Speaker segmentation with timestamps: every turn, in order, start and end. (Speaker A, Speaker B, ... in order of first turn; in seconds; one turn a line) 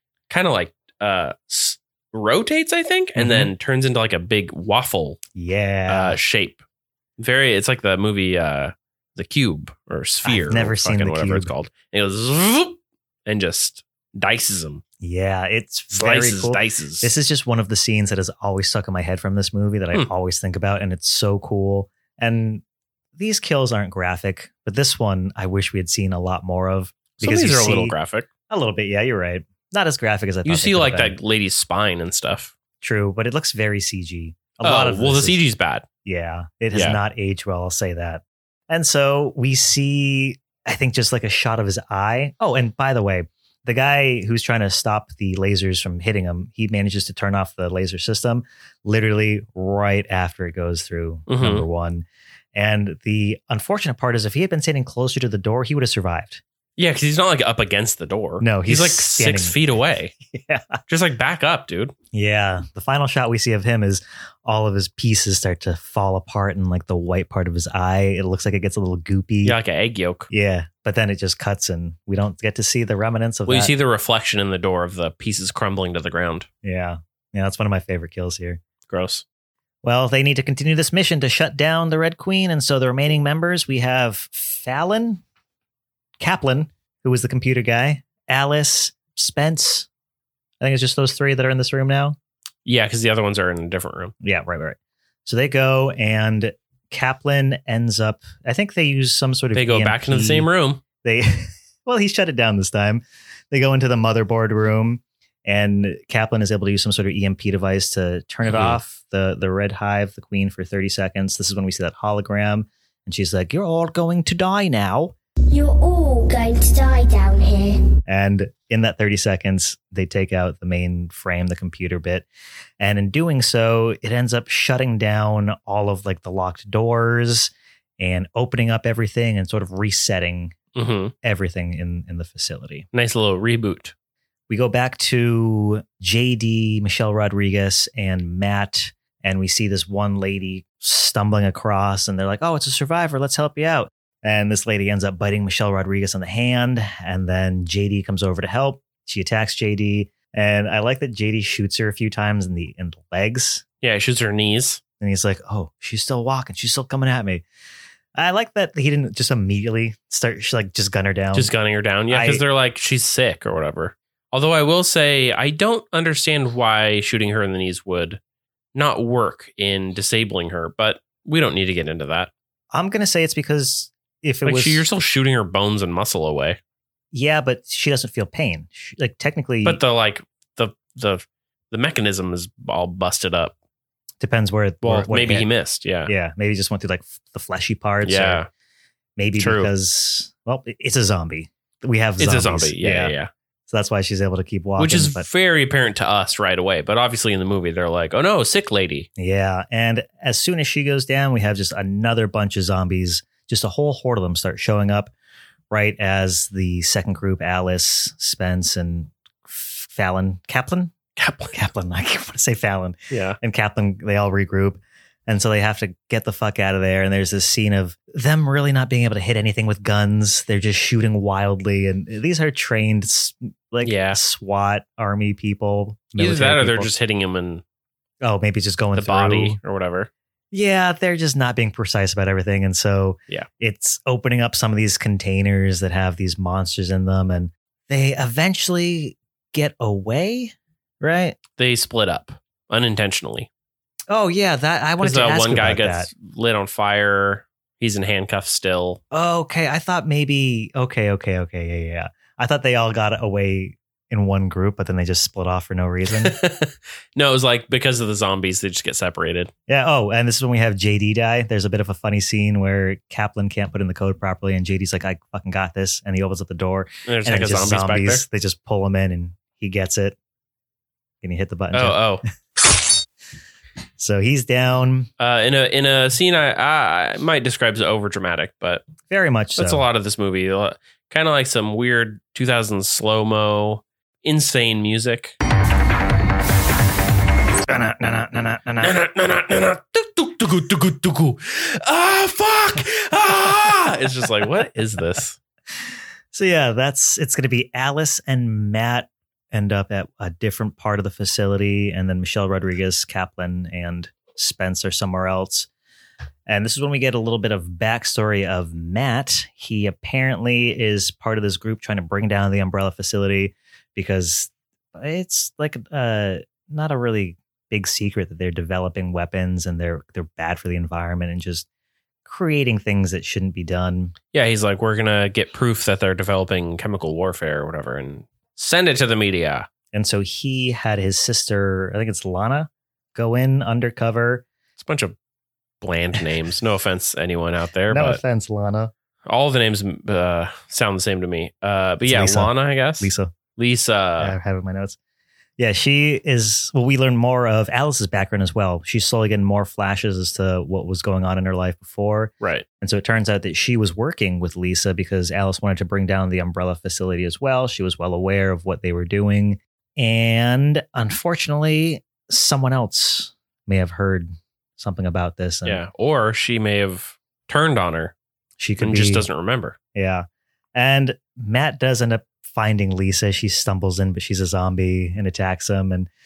Speaker A: 0.3-5.2
Speaker B: 3.1-3.5
Speaker B: 5.4-6.2
Speaker A: 5.9-6.6
Speaker A: 7.2-14.8
Speaker B: 10.2-11.5
Speaker B: 15.0-22.6
Speaker A: 15.9-17.1
Speaker B: 23.1-27.9
Speaker A: 27.2-28.3
Speaker B: 28.5-31.1
Speaker A: 30.4-32.5
Speaker B: 32.8-35.4
Speaker A: 34.6-35.9
Speaker B: 36.0-56.4
Speaker A: 36.7-37.0
Speaker A: 51.3-51.6
Speaker A: 56.8-60.1
Speaker B: 58.4-59.7
Speaker B: 60.3-60.8
Speaker A: 60.9-61.9
Speaker B: 62.1-69.6
Speaker A: 69.4-70.3
Speaker B: 70.3-73.7
Speaker A: 73.5-76.5
Speaker B: 76.6-78.6
Speaker A: 78.9-79.2
Speaker B: 79.8-85.2
Speaker B: 86.2-89.9
Speaker B: 90.6-92.2
Speaker A: 92.6-94.1
Speaker B: 94.2-100.5
Speaker A: 99.5-100.8
Speaker B: 101.0-115.1
Speaker A: 108.4-108.8
Speaker C: 115.5-117.8
Speaker B: 118.1-122.2
Speaker B: 122.8-130.5
Speaker A: 130.7-131.1
Speaker B: 131.2-132.9
Speaker A: 132.9-133.9
Speaker B: 134.5-153.6
Speaker A: 153.8-154.8
Speaker B: 155.0-157.4
Speaker B: 158.1-161.5
Speaker A: 161.3-168.2
Speaker B: 162.1-162.4
Speaker A: 168.7-172.3
Speaker B: 172.7-174.8
Speaker A: 174.4-176.6
Speaker B: 177.1-179.8
Speaker A: 179.6-183.5
Speaker B: 184.2-185.5
Speaker A: 184.8-186.1
Speaker B: 186.0-188.4
Speaker A: 188.0-188.5
Speaker B: 189.2-193.1
Speaker A: 189.4-189.7
Speaker A: 192.2-193.3
Speaker B: 193.7-195.3
Speaker A: 194.8-199.1
Speaker B: 199.2-205.1
Speaker B: 205.7-210.9
Speaker A: 211.2-211.5
Speaker B: 211.5-226.9
Speaker A: 213.1-213.4
Speaker A: 223.8-224.2
Speaker A: 226.2-227.6
Speaker B: 228.2-229.6
Speaker A: 228.9-230.1
Speaker B: 230.5-241.4
Speaker A: 241.6-243.5
Speaker B: 244.1-246.1
Speaker A: 245.0-249.0
Speaker B: 249.1-256.3
Speaker A: 256.1-259.5
Speaker B: 259.7-270.1
Speaker A: 267.1-268.2
Speaker B: 271.2-272.1
Speaker A: 271.7-272.2
Speaker B: 274.0-275.1
Speaker A: 275.2-278.8
Speaker B: 279.1-279.8
Speaker A: 279.6-285.4
Speaker B: 287.7-289.0
Speaker A: 288.8-295.4
Speaker B: 296.3-305.7
Speaker B: 306.5-321.6
Speaker B: 322.2-324.1
Speaker A: 324.3-329.7
Speaker B: 329.9-334.4
Speaker A: 334.8-335.1
Speaker A: 335.8-338.2
Speaker B: 337.9-338.9
Speaker A: 339.2-344.3
Speaker B: 342.1-343.3
Speaker B: 344.2-344.9
Speaker B: 345.6-365.8
Speaker A: 365.6-368.1
Speaker B: 368.6-369.2
Speaker A: 368.8-369.8
Speaker B: 369.9-376.1